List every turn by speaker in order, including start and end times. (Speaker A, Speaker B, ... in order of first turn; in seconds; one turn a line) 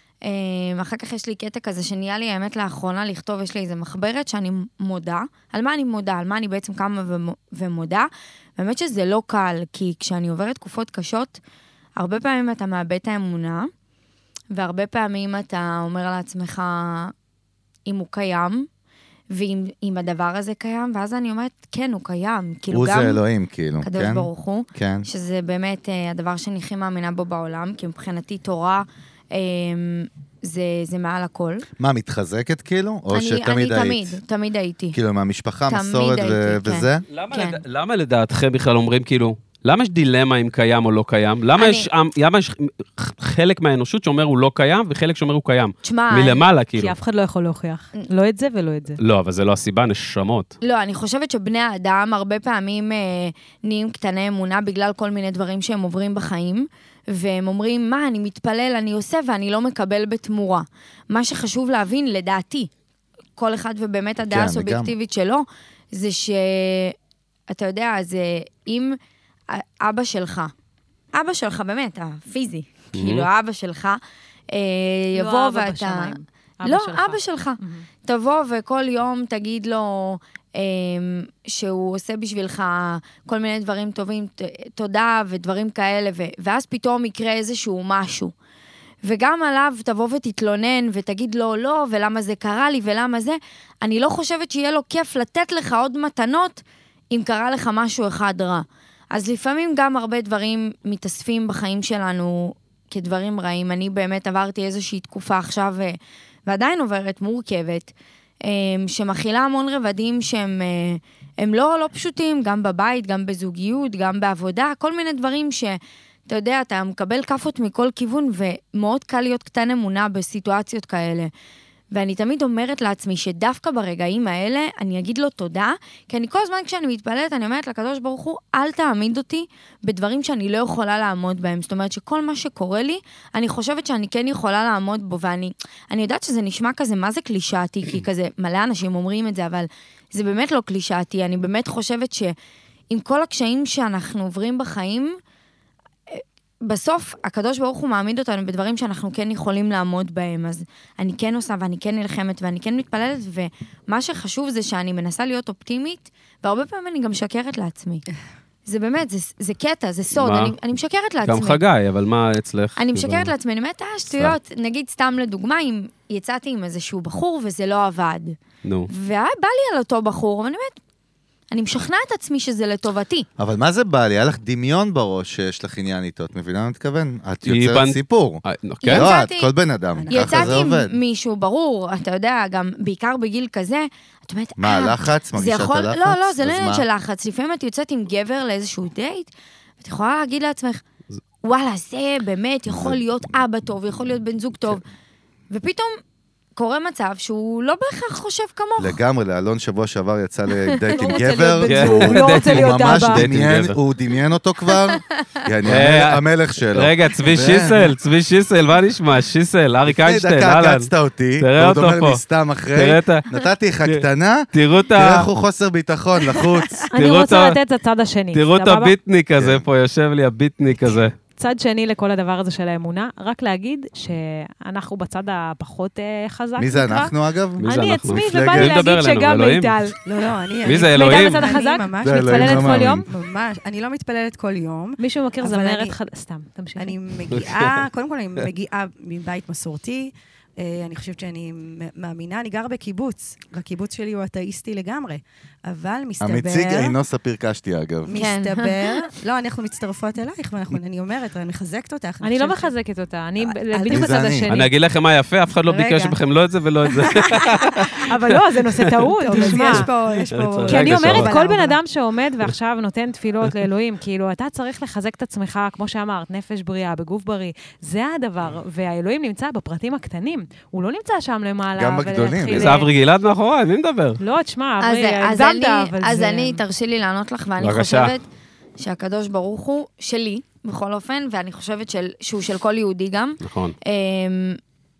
Speaker A: 0.2-11.4
Speaker A: 12.0-13.7
Speaker A: 14.5-17.1
Speaker A: 17.9-18.7
Speaker A: 19.3-23.2
Speaker B: 22.7-25.1
Speaker A: 23.8-31.6
Speaker B: 31.8-34.2
Speaker A: 33.1-35.0
Speaker B: 34.9-37.0
Speaker A: 35.7-37.6
Speaker C: 37.1-47.0
Speaker A: 41.6-41.9
Speaker A: 45.8-46.4
Speaker D: 46.8-49.0
Speaker C: 49.0-50.5
Speaker A: 50.6-62.7
Speaker A: 63.4-66.9
Speaker B: 64.3-64.9
Speaker A: 67.5-69.0
Speaker A: 69.5-70.5
Speaker A: 71.1-74.0
Speaker C: 72.9-73.3
Speaker A: 74.5-88.3
Speaker D: 75.1-77.8
Speaker A: 89.0-107.9
Speaker A: 108.4-121.3
Speaker A: 121.9-142.3
Speaker A: 142.9-145.2
Speaker A: 146.1-158.0
Speaker A: 158.7-161.6
Speaker C: 160.1-160.6
Speaker C: 161.2-163.3
Speaker A: 162.8-168.4
Speaker C: 168.6-168.9
Speaker A: 168.9-170.8
Speaker A: 171.5-173.3
Speaker B: 173.4-180.9
Speaker C: 177.4-179.1
Speaker A: 178.8-179.5
Speaker E: 180.0-180.6
Speaker A: 180.1-190.8
Speaker B: 184.6-186.8
Speaker A: 191.4-194.8
Speaker B: 192.7-193.0
Speaker A: 195.5-195.9
Speaker A: 196.6-199.0
Speaker B: 198.8-207.9
Speaker A: 200.7-201.2
Speaker D: 200.9-203.2
Speaker C: 201.6-203.8
Speaker C: 205.7-212.2
Speaker B: 209.9-216.9
Speaker C: 212.7-213.2
Speaker C: 213.8-215.3
Speaker D: 216.9-218.9
Speaker C: 216.9-217.6
Speaker C: 218.3-221.1
Speaker B: 219.4-219.7
Speaker D: 221.4-227.1
Speaker B: 226.6-228.9
Speaker C: 227.6-229.8
Speaker D: 227.6-230.0
Speaker E: 230.0-236.0
Speaker C: 230.6-231.6
Speaker D: 230.6-233.1
Speaker B: 232.0-233.0
Speaker D: 235.0-237.0
Speaker E: 236.8-246.9
Speaker C: 237.3-237.8
Speaker B: 246.2-248.3
Speaker E: 248.1-252.7
Speaker A: 248.1-249.1
Speaker D: 252.2-254.7
Speaker E: 253.4-254.3
Speaker B: 253.9-254.5
Speaker C: 254.5-261.3
Speaker E: 255.7-256.2
Speaker E: 256.9-257.8
Speaker D: 257.9-259.9
Speaker E: 259.1-261.8
Speaker D: 260.6-272.9
Speaker B: 271.8-272.8
Speaker C: 272.5-274.2
Speaker D: 274.2-276.6
Speaker A: 274.8-278.2
Speaker C: 277.6-278.1
Speaker A: 278.8-284.6
Speaker C: 283.4-283.8